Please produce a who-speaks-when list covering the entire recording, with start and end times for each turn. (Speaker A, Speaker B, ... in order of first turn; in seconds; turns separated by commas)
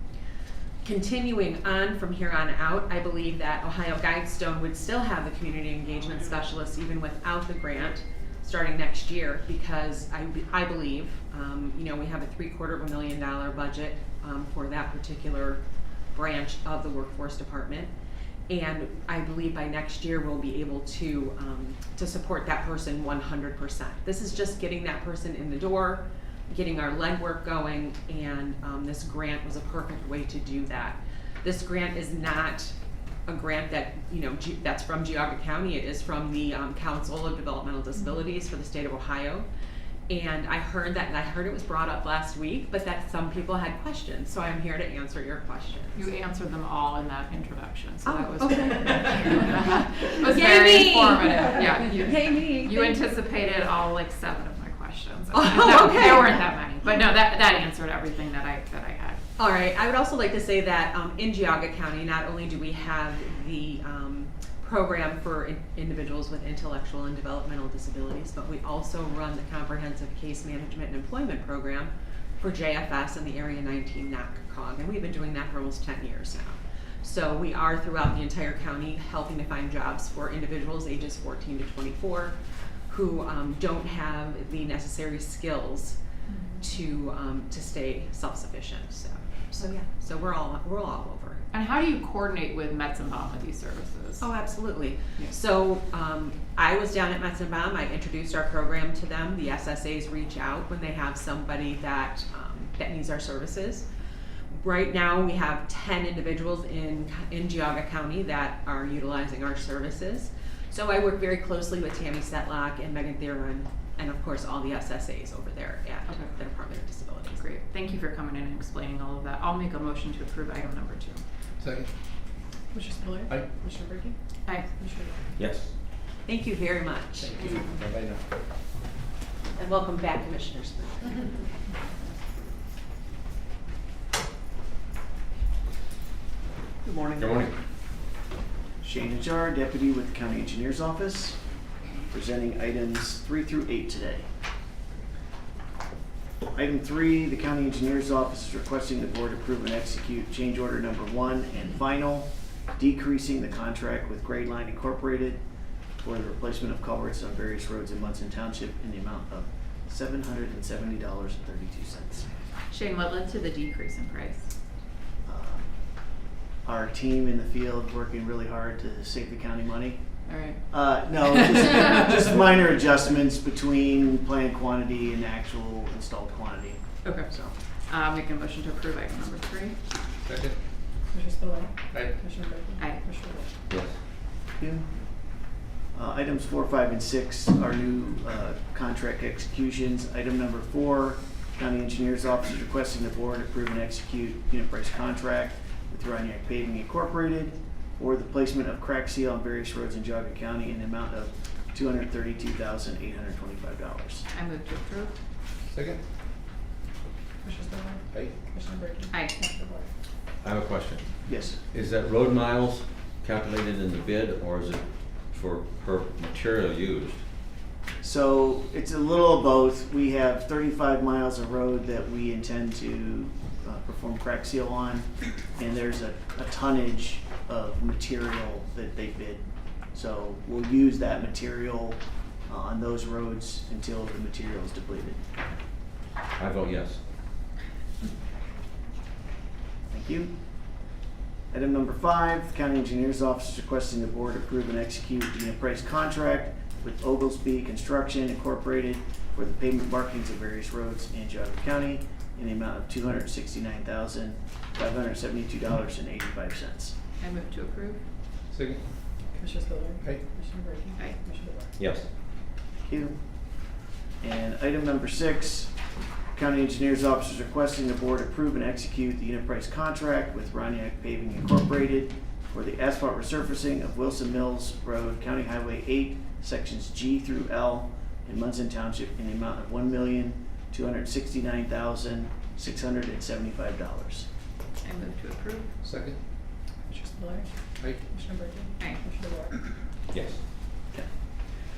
Speaker A: 0.8-15.6, Speaker A: 16.1-17.9, Speaker A: 18.5-32.7, Speaker A: 33.3-39.5, Speaker A: 40.1-46.1, Speaker B: 46.0-59.2, Speaker A: 48.0-53.0, Speaker A: 55.3-56.4, Speaker A: 59.4-82.4, Speaker A: 82.9-86.0, Speaker A: 86.6-91.4, Speaker B: 91.5-94.3, Speaker A: 94.2-103.8, Speaker A: 104.5-117.5, Speaker B: 117.4-121.2, Speaker C: 121.6-121.9, Speaker D: 122.7-124.2, Speaker B: 124.5-124.7, Speaker D: 124.8-125.1, Speaker E: 125.4-125.7, Speaker A: 126.3-127.7, Speaker C: 127.2-128.2, Speaker A: 129.6-131.4, Speaker F: 136.8-137.3, Speaker E: 137.2-137.5, Speaker F: 138.8-141.4, Speaker F: 142.1-144.3, Speaker F: 146.5-155.4, Speaker F: 156.0-162.3, Speaker B: 162.7-164.5, Speaker F: 165.2-165.7, Speaker F: 166.6-170.1, Speaker B: 170.2-170.6, Speaker F: 170.7-177.5, Speaker B: 177.0-179.8, Speaker C: 180.2-180.6, Speaker D: 181.1-183.4, Speaker C: 181.9-182.2, Speaker B: 182.8-183.0, Speaker E: 183.7-184.0, Speaker F: 184.6-184.9, Speaker F: 185.9-204.2, Speaker B: 204.3-205.1, Speaker C: 205.7-206.0, Speaker D: 207.4-209.9, Speaker C: 208.1-208.4, Speaker B: 209.1-209.3, Speaker E: 210.4-211.1, Speaker F: 211.2-211.6, Speaker E: 211.7-217.2, Speaker F: 218.0-235.2, Speaker E: 236.3-237.0, Speaker F: 239.9-240.3, Speaker F: 241.5-256.9, Speaker B: 257.2-258.0, Speaker C: 258.5-258.8, Speaker D: 259.4-261.6, Speaker C: 260.0-260.3, Speaker B: 261.0-261.5, Speaker E: 261.8-262.1, Speaker F: 262.9-263.2, Speaker F: 264.2-265.7, Speaker F: 266.3-284.3, Speaker B: 284.8-285.7, Speaker C: 285.8-286.2, Speaker D: 286.9-287.5, Speaker C: 287.8-288.1, Speaker D: 288.1-289.5, Speaker E: 290.1-290.4